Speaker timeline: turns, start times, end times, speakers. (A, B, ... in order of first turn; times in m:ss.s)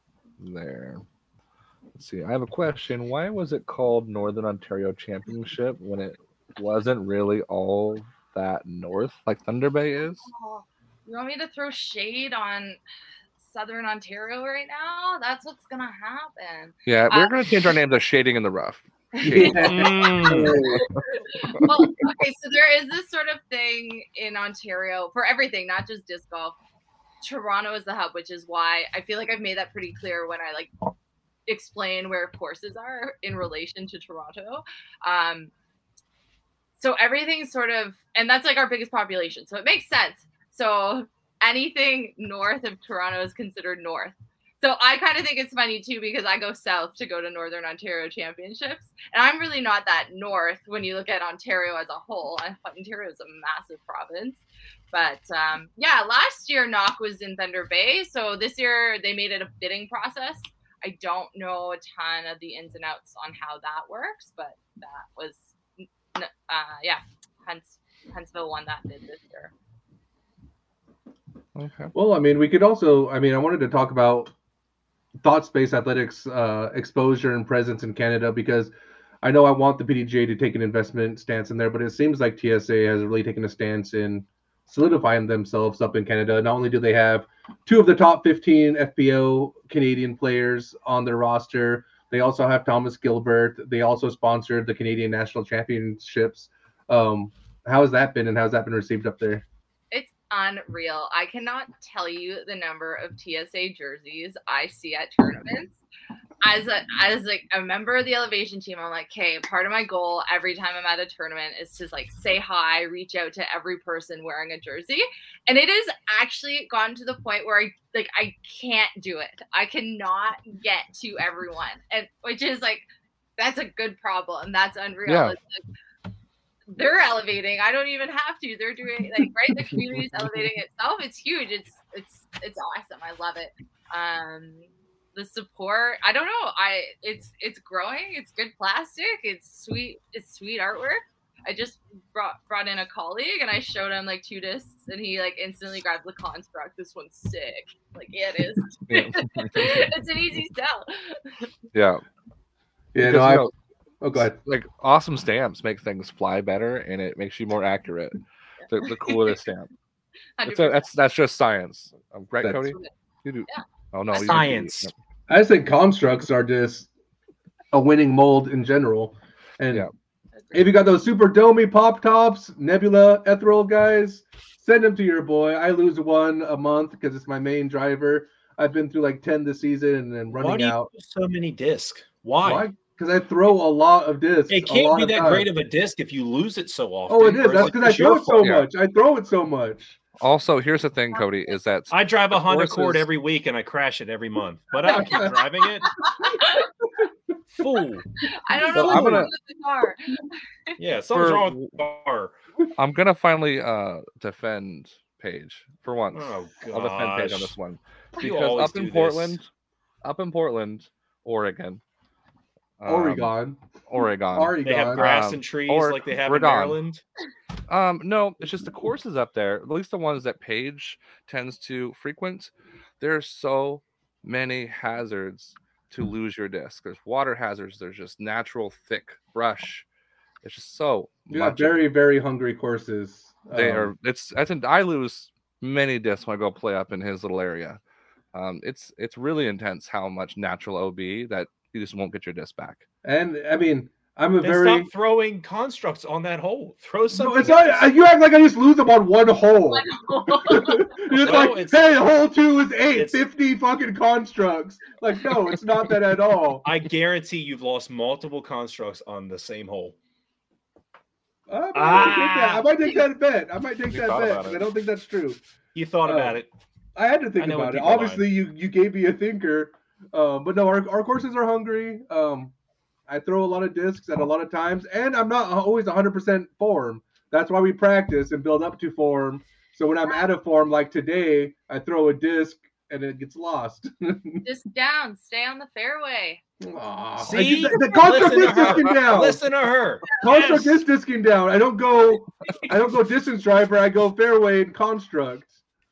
0:00.4-0:01.0 A
0:01.9-0:10.3 A
0:10.3-0:12.8 B
0:13.4-0:17.3 B
0:16.9-0:21.6 A
0:19.2-0:26.6 B
0:19.3-0:20.8 C
0:19.5-0:20.6 D
0:27.2-0:30.7 B
0:31.5-0:35.5 B
0:36.8-1:09.5 B
1:11.6-1:11.9 A
1:11.9-1:14.3 C
1:15.2-1:39.4 C
1:39.9-1:45.8 B
1:46.4-2:02.8 B
2:03.4-2:05.6 B
2:05.1-2:05.4 A
2:06.7-2:31.5 B
2:28.9-2:29.9 A
2:31.7-2:32.0 A
2:32.9-2:33.5 C
2:33.0-2:33.5 A
2:34.0-2:34.4 C
2:34.2-2:39.7 A
2:38.7-2:39.3 B
2:40.4-2:40.9 B
2:40.4-2:44.9 A
2:42.4-2:42.7 C
2:43.5-2:44.4 B
2:44.2-2:44.9 D
2:45.3-2:46.9 C
2:47.7-2:49.9 C
2:50.5-3:00.9 C
3:00.3-3:02.7 D
3:02.4-3:05.5 C
3:04.5-3:07.9 D
3:07.1-3:10.0 C
3:07.4-3:08.7 A
3:10.2-3:13.1 A
3:11.9-3:16.0 D
3:14.8-3:15.4 C
3:14.9-3:15.4 B
3:16.0-3:16.7 B
3:17.5-3:18.0 D
3:18.2-3:20.8 B
3:18.6-3:19.3 C
3:18.7-3:19.3 A
3:20.8-3:22.3 D
3:21.1-3:21.8 A
3:22.8-3:29.5 A
3:26.1-3:27.6 D
3:28.2-3:29.4 D
3:30.0-3:31.8 A
3:32.8-3:33.3 A
3:32.9-3:33.6 C
3:33.9-3:36.8 A
3:34.3-3:35.1 C
3:34.6-3:37.0 D
3:37.7-3:49.9 A
3:50.4-3:51.8 A
3:51.3-3:53.9 C
3:53.5-3:57.8 A
3:58.3-4:02.8 A
4:03.0-4:04.9 C
4:04.4-4:07.9 D
4:07.1-4:16.6 C
4:09.7-4:10.9 B
4:11.1-4:12.0 D
4:13.0-4:13.2 D
4:16.6-4:20.0 D
4:21.5-4:25.4 C
4:21.7-4:22.7 D
4:23.9-4:24.6 A
4:25.8-4:26.5 D
4:26.0-4:26.4 C
4:27.0-4:32.5 C
4:27.4-4:28.2 D
4:33.1-4:44.4 C
4:44.4-4:46.4 B
4:46.6-4:49.4 C
4:47.2-4:50.8 D
4:47.4-4:48.8 B
4:50.2-4:55.6 C